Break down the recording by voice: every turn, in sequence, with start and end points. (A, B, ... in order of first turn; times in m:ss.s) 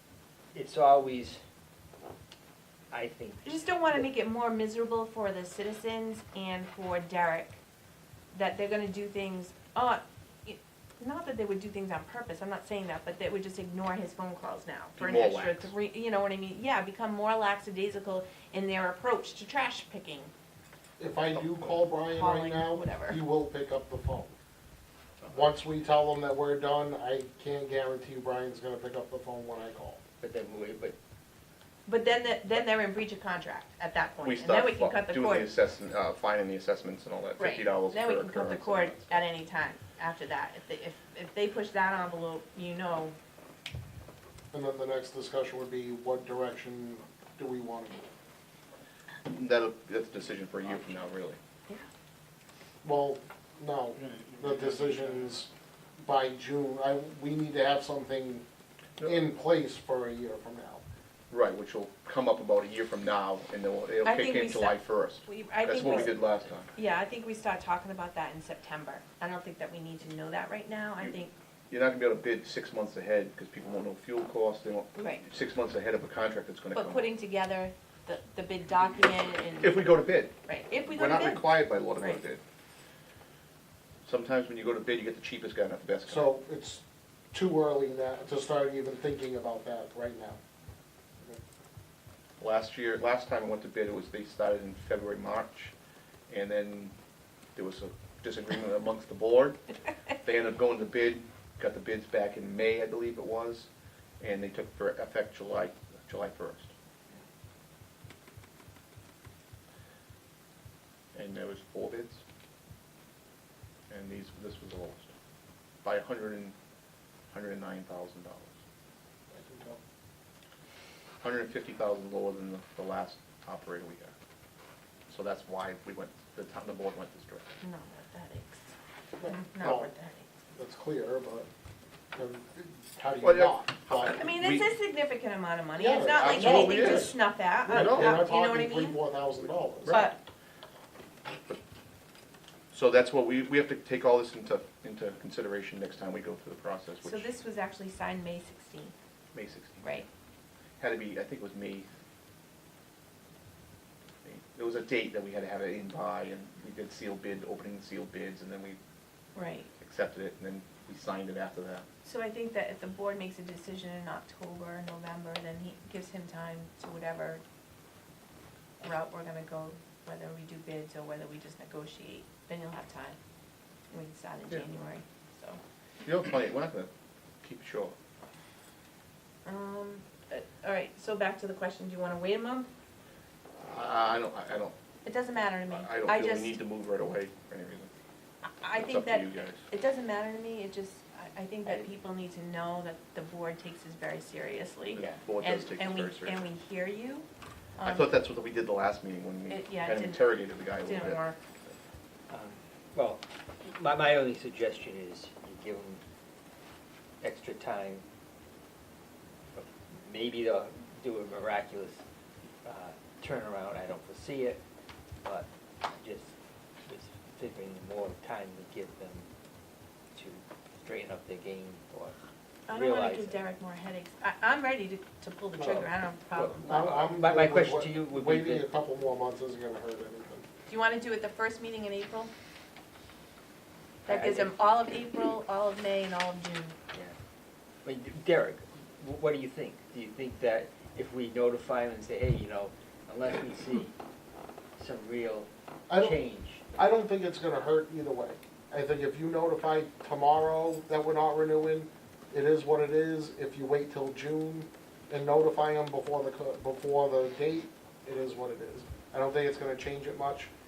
0:00.5-0:01.4 A
0:02.9-0:04.0 A
0:03.4-0:07.6 B
0:08.3-0:20.3 B
0:15.0-0:15.7 C
0:21.0-0:24.3 D
0:22.0-0:23.2 B
0:25.3-0:30.0 D
0:30.2-0:30.9 A
0:31.8-0:35.5 B
0:34.2-0:39.2 C
0:37.4-0:43.1 B
0:44.5-0:48.0 D
0:49.2-0:51.4 C
0:52.8-0:58.4 D
0:59.0-0:59.2 C
0:59.0-1:00.8 D
1:01.3-1:06.7 C
1:04.0-1:06.2 B
1:06.7-1:11.3 B
1:11.7-1:17.1 C
1:15.0-1:15.2 B
1:16.7-1:19.9 B
1:19.6-1:22.4 C
1:20.4-1:22.2 B
1:24.0-1:26.3 C
1:26.1-1:30.4 D
1:32.4-1:35.7 C
1:36.3-1:36.9 C
1:37.6-1:39.6 C
1:40.2-1:43.7 C
1:44.2-1:46.7 C
1:51.1-1:52.2 C
1:53.9-1:55.1 C
1:55.8-1:56.5 C
1:57.3-1:58.5 C
1:59.3-1:59.8 D
2:01.2-2:04.1 C
2:05.1-2:07.4 C
2:07.6-2:08.7 B
2:09.2-2:09.9 D
2:09.2-2:10.3 B
2:10.5-2:11.5 D
2:12.1-2:14.2 D
2:13.2-2:14.7 C
2:14.0-2:19.0 B
2:15.8-2:20.0 D
2:16.0-2:17.2 C
2:17.7-2:18.2 C
2:19.8-2:20.1 C
2:19.8-2:20.2 B
2:22.7-2:27.3 C
2:27.0-2:28.9 B
2:29.3-2:30.0 C
2:29.8-2:30.1 B
2:30.8-2:31.9 C
2:34.2-2:38.8 C
2:39.3-2:39.7 B
2:39.8-2:41.8 C
2:42.0-2:47.4 B
2:48.8-2:53.2 B
2:53.9-2:55.6 B
2:56.0-2:56.9 C
2:57.4-2:57.9 C
2:59.4-3:02.7 B
3:03.6-3:04.7 C
3:05.0-3:06.6 B
3:05.7-3:07.9 C
3:08.6-3:17.2 B
3:08.7-3:09.6 C
3:15.0-3:16.4 C
3:15.0-3:15.2 A
3:17.8-3:18.1 B
3:17.8-3:21.2 C
3:19.5-3:20.2 B
3:20.8-3:21.4 B
3:22.3-3:26.0 A
3:27.2-3:28.0 A
3:29.6-3:32.0 A
3:32.6-3:34.6 A
3:35.2-3:36.3 A
3:36.9-3:39.3 A
3:40.1-3:42.1 A
3:42.7-3:46.7 B
3:42.7-3:43.4 A
3:45.6-3:45.9 D
3:46.3-3:48.7 A
3:46.6-3:50.4 D
3:50.7-3:52.3 B
3:54.0-3:56.7 B
3:54.1-3:54.7 A
3:57.8-4:03.9 A
4:04.8-4:06.6 A
4:05.9-4:06.2 D
4:06.7-4:20.5 D